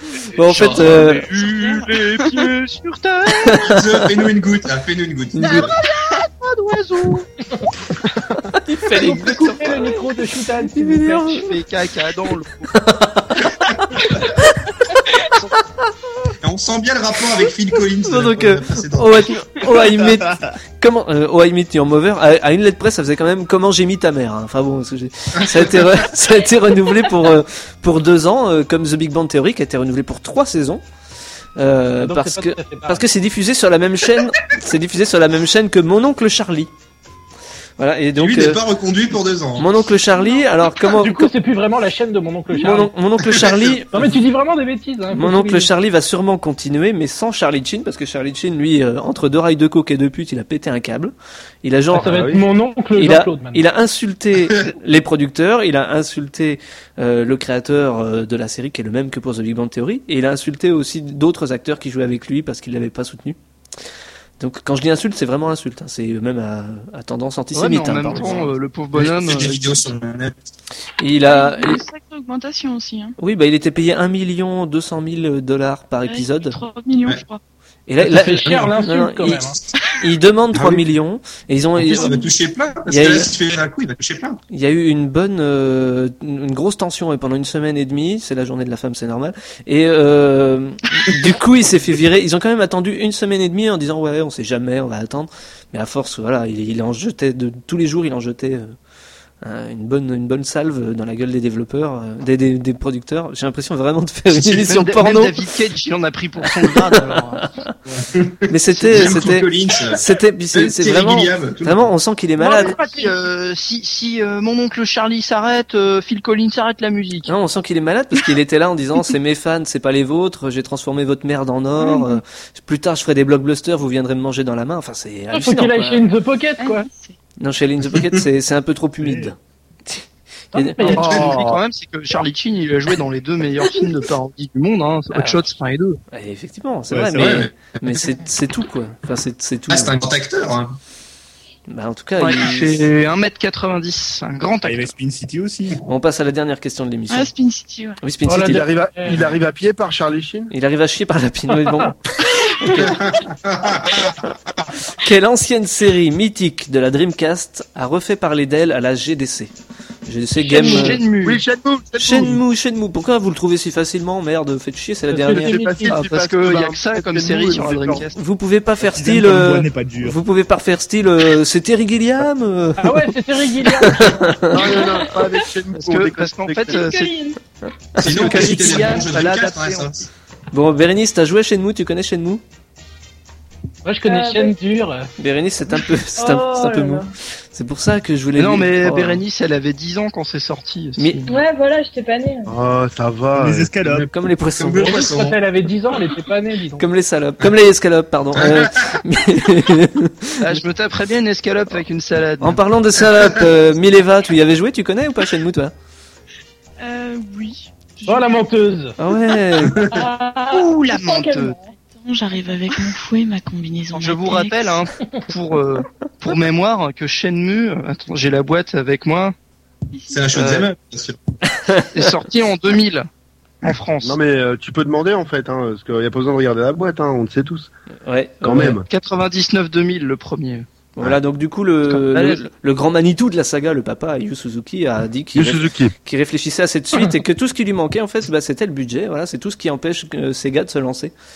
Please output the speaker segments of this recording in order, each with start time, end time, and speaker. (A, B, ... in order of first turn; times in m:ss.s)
0:00.3-0:01.3 A
0:00.4-0:03.7 B
0:01.1-0:02.5 C
0:03.4-0:03.9 A
0:03.6-0:05.7 D
0:05.4-0:05.7 A
0:06.4-0:07.2 B
0:08.5-0:09.8 A
0:09.0-0:11.4 E
0:10.7-0:11.5 A
0:11.2-0:12.7 B
0:12.7-0:13.4 A
0:16.4-0:19.3 D
0:18.0-0:30.8 A
0:20.2-0:20.5 F
0:25.5-0:25.8 D
0:31.6-0:36.7 A
0:32.0-0:33.0 E
0:37.8-0:38.6 A
0:38.2-0:39.8 D
0:39.6-0:41.3 A
0:40.1-0:40.6 C
0:40.9-0:42.9 E
0:42.6-0:44.0 A
0:43.9-0:45.7 E
0:45.1-0:52.3 A
0:51.9-0:53.6 E
0:51.9-0:52.4 G
0:52.9-1:03.4 A
1:04.4-1:08.4 A
1:07.5-1:09.9 B
1:08.2-1:10.4 D
1:11.0-1:11.8 A
1:11.2-1:13.2 C
1:13.2-1:16.6 A
1:16.0-1:17.4 C
1:17.9-1:19.4 A
1:18.0-1:19.6 E
1:18.4-1:18.7 D
1:19.3-1:19.6 D
1:20.0-1:22.2 A
1:20.5-1:20.8 D
1:21.8-1:24.4 D
1:22.9-1:23.3 A
1:24.5-1:38.7 A
1:39.4-1:45.4 A
1:44.5-1:47.4 B
1:47.1-1:47.7 A
1:47.9-1:51.9 D
1:48.5-1:52.8 A
1:48.8-1:49.1 B
1:52.4-1:57.3 B
1:57.3-2:06.0 A
2:05.3-2:06.9 E
2:06.6-2:06.8 C
2:07.4-2:09.4 A
2:09.0-2:09.3 F
2:09.9-2:11.2 A
2:10.5-2:11.6 E
2:10.8-2:16.0 B
2:15.1-2:15.4 A
2:16.1-2:19.9 A
2:16.9-2:17.5 F
2:17.2-2:18.2 D
2:19.7-2:20.8 D
2:21.7-2:22.8 A
2:22.2-2:24.9 B
2:24.6-2:25.8 F
2:25.8-2:27.3 A
2:27.1-2:28.0 C
2:28.0-2:28.6 A
2:28.2-2:29.2 E
2:28.4-2:30.5 G
2:30.5-2:33.0 A
2:31.6-2:31.9 E
2:32.7-2:34.3 D
2:34.9-2:39.5 A
2:40.1-2:41.0 A
2:40.4-2:41.4 B
2:41.2-2:42.4 G
2:42.0-2:45.6 A
2:45.1-2:48.0 G
2:45.2-2:46.0 E
2:45.8-2:48.2 B
2:48.2-2:53.1 A
2:48.8-2:50.2 F
2:52.8-2:54.6 E
2:53.6-2:54.8 A
2:54.5-2:56.8 G
2:55.7-2:57.1 B
2:56.7-2:57.4 H
2:56.7-2:57.2 C
2:57.9-2:58.8 A
2:58.0-3:00.1 D
2:58.0-2:59.9 B
3:00.5-3:02.4 A
3:03.8-3:05.1 E
3:04.0-3:04.5 H
3:05.2-3:09.2 A
3:06.2-3:07.1 H
3:08.4-3:11.3 B
3:11.0-3:11.2 A
3:11.3-3:12.5 H
3:12.4-3:13.7 G
3:13.4-3:14.0 F
3:13.8-3:15.4 D
3:14.1-3:15.1 A
3:14.8-3:16.9 E
3:16.8-3:20.6 A
3:18.4-3:19.0 D
3:20.4-3:22.6 B
3:22.4-3:25.7 A
3:26.8-3:28.4 C
3:28.0-3:28.9 E
3:29.0-3:29.8 A
3:29.6-3:30.0 D
3:29.9-3:31.7 H
3:30.5-3:31.6 B
3:31.9-3:34.8 I
3:33.9-3:39.3 B
3:39.9-3:40.3 C
3:40.1-3:41.2 D
3:40.3-3:40.7 B
3:41.5-3:42.0 A
3:41.9-3:43.1 B
3:43.6-3:44.2 B
3:44.0-3:47.7 G
3:48.0-3:48.8 A
3:48.4-3:48.8 G
3:48.8-3:50.6 B
3:51.0-4:01.1 A
3:51.9-3:52.4 B
3:55.3-3:55.9 G